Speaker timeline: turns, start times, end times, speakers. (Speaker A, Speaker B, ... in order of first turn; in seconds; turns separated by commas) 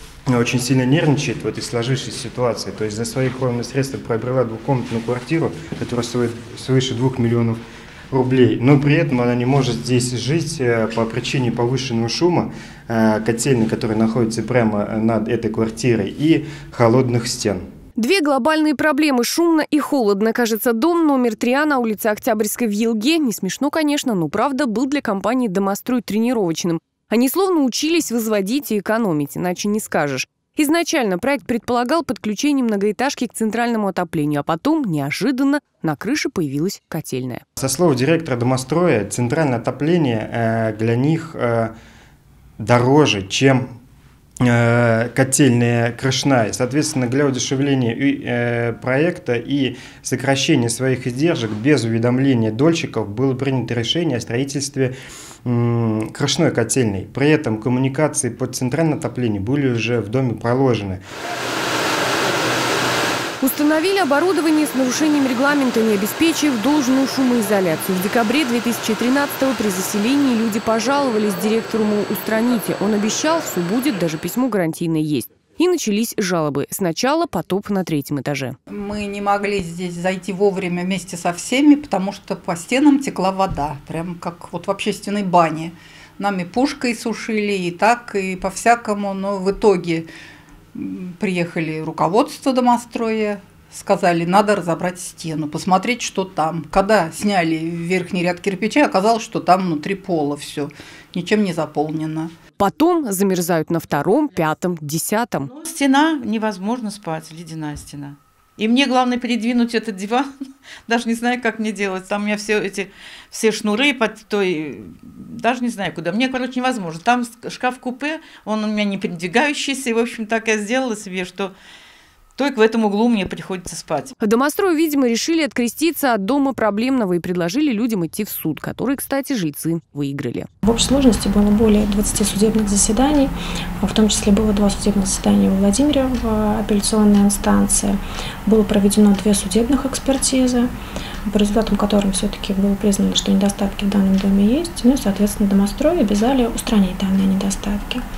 Speaker A: 0.3-7.6, Speaker A: 8.1-17.6, Speaker B: 18.0-37.4, Speaker A: 37.6-41.7, Speaker A: 42.6-43.6, Speaker A: 44.4-54.9, Speaker A: 55.4-61.0, Speaker B: 63.4-78.5, Speaker C: 78.7-90.1, Speaker C: 90.7-102.3, Speaker B: 102.6-105.5, Speaker D: 105.5-110.3, Speaker D: 110.9-121.5, Speaker D: 122.4-124.1, Speaker B: 124.2-130.5, Speaker E: 130.6-140.7, Speaker E: 141.3-148.0